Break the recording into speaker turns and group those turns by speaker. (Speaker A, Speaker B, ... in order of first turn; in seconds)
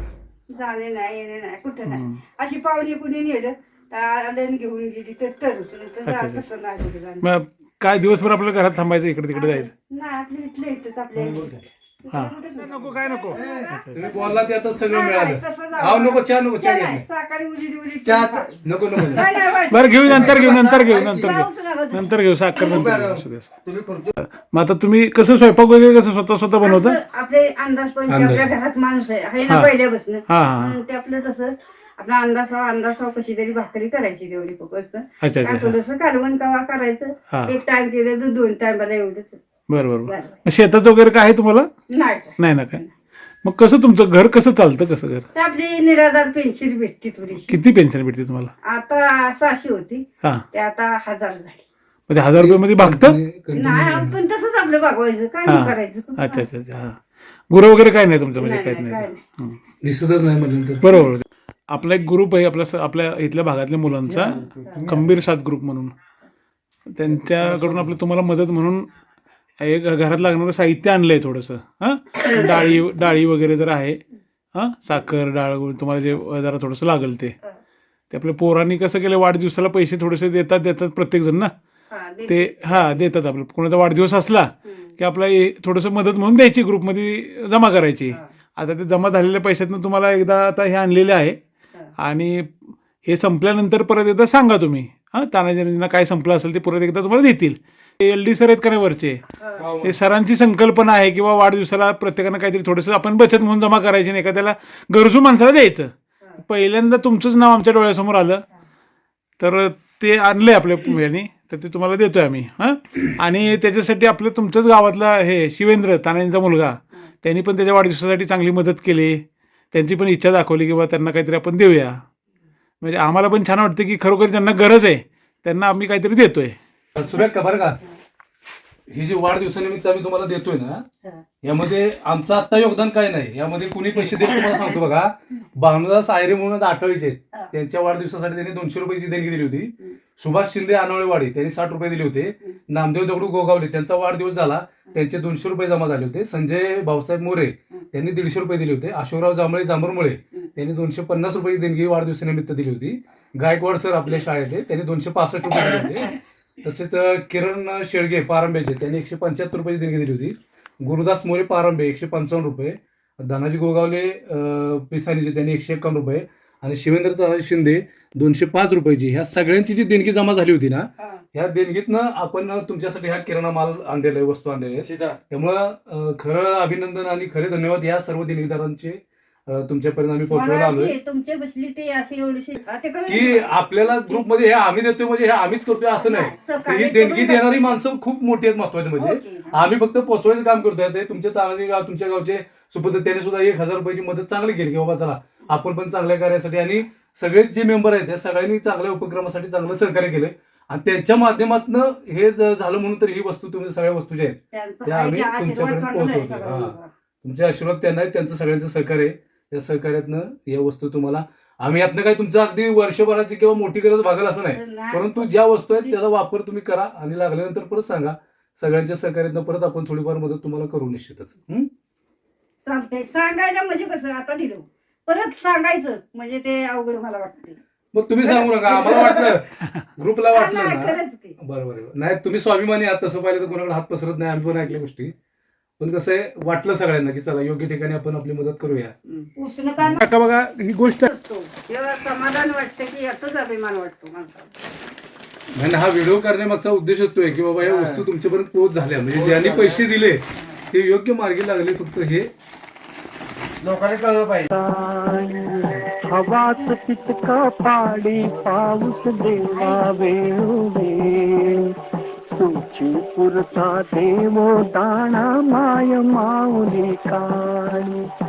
Speaker A: 0.5-7.3, 9.3-18.5, 19.1-22.9, 26.6-39.4, 40.1-40.4, 41.9-42.9, 45.3-47.6, 48.6-51.6, 53.6-56.5, 58.4-59.2, 64.6-64.9, 72.4-72.6, 81.9-83.1, 84.7-84.9, 99.4-99.7, 134.3-134.7, 155.5-155.9, 180.3-184.2, 186.0-187.7, 189.0-189.6, 204.5-206.9, 214.5-216.0, 222.7-227.6, 228.2-229.4, 230.3-231.3, 239.1-240.1, 241.1-244.5, 259.5-259.8
Speaker B: 1.9-2.2, 6.0-6.4, 7.2-9.7, 12.1-14.2, 19.7-23.6, 24.2-27.0, 29.5-29.7, 30.3-30.8, 35.2-35.8, 37.3-37.6, 39.7-41.7, 42.4-42.8, 43.4-45.2, 47.3-48.5, 52.1-53.2, 55.5-57.0, 57.5-59.6, 60.8-65.9, 66.9-68.9, 69.6-74.0, 74.5-77.4, 78.1-81.5, 82.3-91.4, 92.0-99.2, 99.8-108.4, 109.4-122.0, 122.8-126.6, 240.0-241.1
Speaker C: 13.9-17.0, 18.6-19.3, 28.1-28.5, 52.4-54.2, 59.8-60.8, 127.0-127.8, 128.9-130.8, 131.4-181.0, 183.1-221.7, 227.9-235.1, 235.8-238.9, 245.5-252.3
Speaker D: 18.1-18.5, 20.1-21.3, 22.7-24.1, 64.2-64.9, 67.4-67.8, 99.6-99.9, 174.8-175.2, 247.6-248.0, 249.2-249.8, 253.6-254.5
Speaker E: 254.5-261.7, 262.4-268.0